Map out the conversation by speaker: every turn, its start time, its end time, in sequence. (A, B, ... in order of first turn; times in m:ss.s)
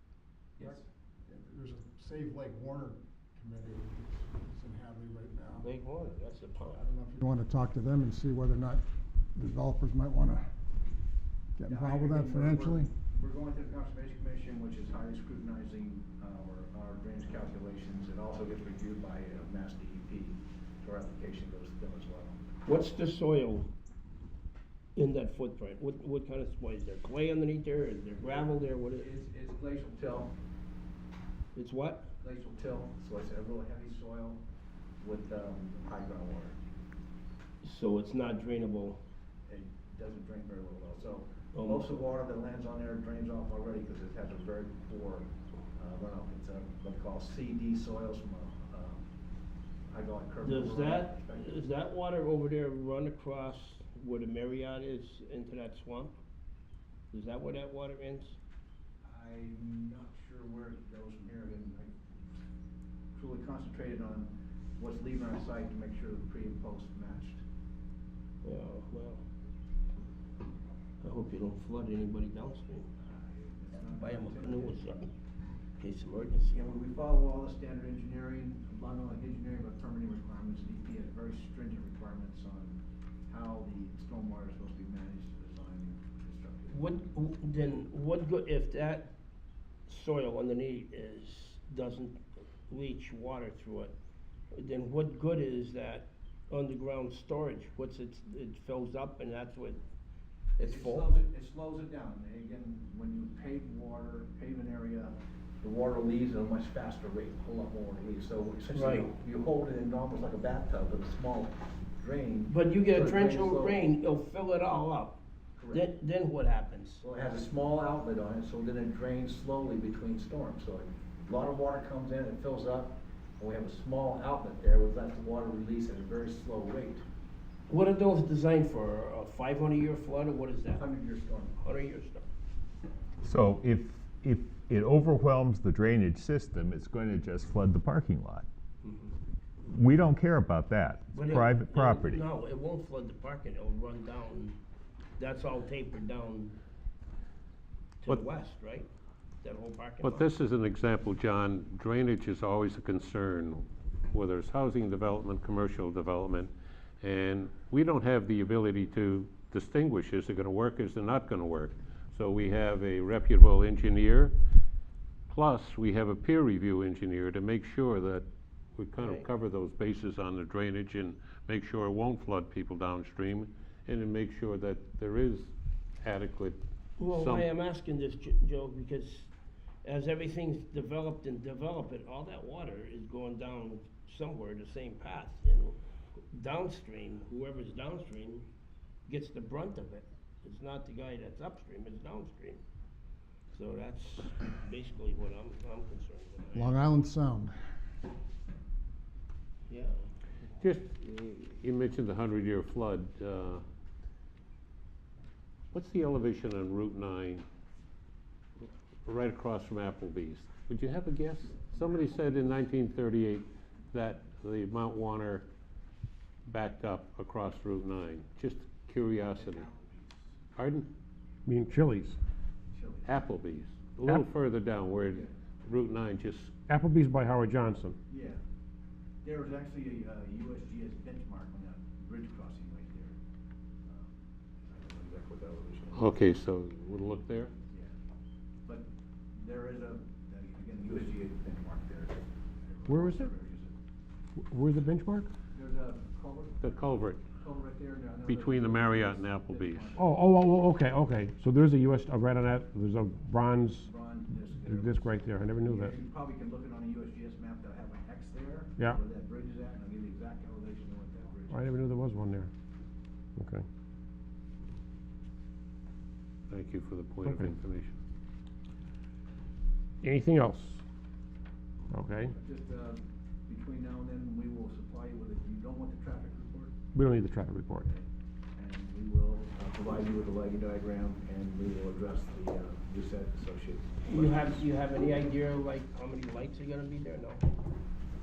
0:00.6-0:00.8 A
0:00.6-0:05.7 B
0:05.6-0:06.8 C
0:06.7-0:10.5 B
0:11.6-0:12.9 B
0:11.6-0:22.4 A
0:22.6-0:23.7 C
0:25.0-0:29.1 C
0:28.2-0:30.3 A
0:31.5-0:32.1 C
0:32.2-0:34.4 A
0:35.0-0:36.6 A
0:37.6-0:39.0 C
0:39.5-0:49.1 A
0:41.5-0:42.0 C
0:49.9-0:51.6 A
0:50.4-0:56.1 C
0:57.1-0:58.4 C
0:59.0-1:02.1 A
1:03.1-1:07.4 A
1:08.4-1:09.2 C
1:11.0-1:12.9 C
1:13.0-1:14.8 A
1:13.9-1:15.1 C
1:15.8-1:16.6 C
1:16.5-1:26.8 A
1:26.7-1:29.1 C
1:29.9-1:33.9 C
1:34.5-1:39.8 C
1:40.6-1:41.1 C
1:40.6-1:53.8 A
1:48.7-1:49.1 C
1:52.5-1:55.2 C
1:55.6-1:55.9 A
1:55.7-1:57.0 C
1:57.0-2:07.0 A
2:07.7-2:10.9 C
2:10.8-2:11.6 A
2:11.6-2:12.2 C
2:13.2-2:18.4 D
2:18.8-2:19.1 C
2:19.6-2:22.2 D
2:21.1-2:24.6 C
2:25.2-2:26.5 C
2:28.0-2:28.9 C
2:29.4-2:30.3 C
2:30.0-2:44.4 E
2:45.3-2:56.6 E
2:49.0-2:49.2 C
2:57.0-2:59.3 C
2:57.1-2:57.5 E
2:59.8-3:05.8 C
3:06.3-3:08.4 C
3:09.1-3:12.6 C
3:13.5-3:16.9 C
3:16.5-3:17.6 B
3:19.7-3:20.1 C
3:20.6-3:23.6 E
3:25.7-3:27.4 E
3:28.6-3:35.5 E
3:30.0-3:30.6 F
3:31.4-3:32.1 F
3:36.5-3:39.7 E
3:39.3-3:40.3 A
3:40.6-3:40.9 E
3:41.4-3:42.2 F
3:42.7-3:43.2 A
3:43.1-3:46.4 E
3:44.0-3:44.6 F
3:46.5-3:48.0 F
3:48.1-3:48.4 A
3:49.2-3:53.2 A
3:53.8-3:56.2 A
3:55.9-3:57.4 E
3:59.4-4:03.7 A
4:02.9-4:03.3 F
4:04.4-4:05.3 F
4:05.5-4:10.1 A
4:06.6-4:07.2 E
4:08.3-4:10.0 E
4:10.0-4:13.9 F
4:13.8-4:21.7 A
4:14.5-4:15.9 F
4:21.5-4:22.5 F
4:23.4-4:23.6 F
4:26.5-4:27.7 E
4:26.6-4:27.9 F
4:30.0-4:30.8 F
4:31.9-4:32.3 F
4:32.2-4:36.7 A
4:36.9-4:37.9 F
4:37.8-4:44.7 A
4:44.1-4:47.4 C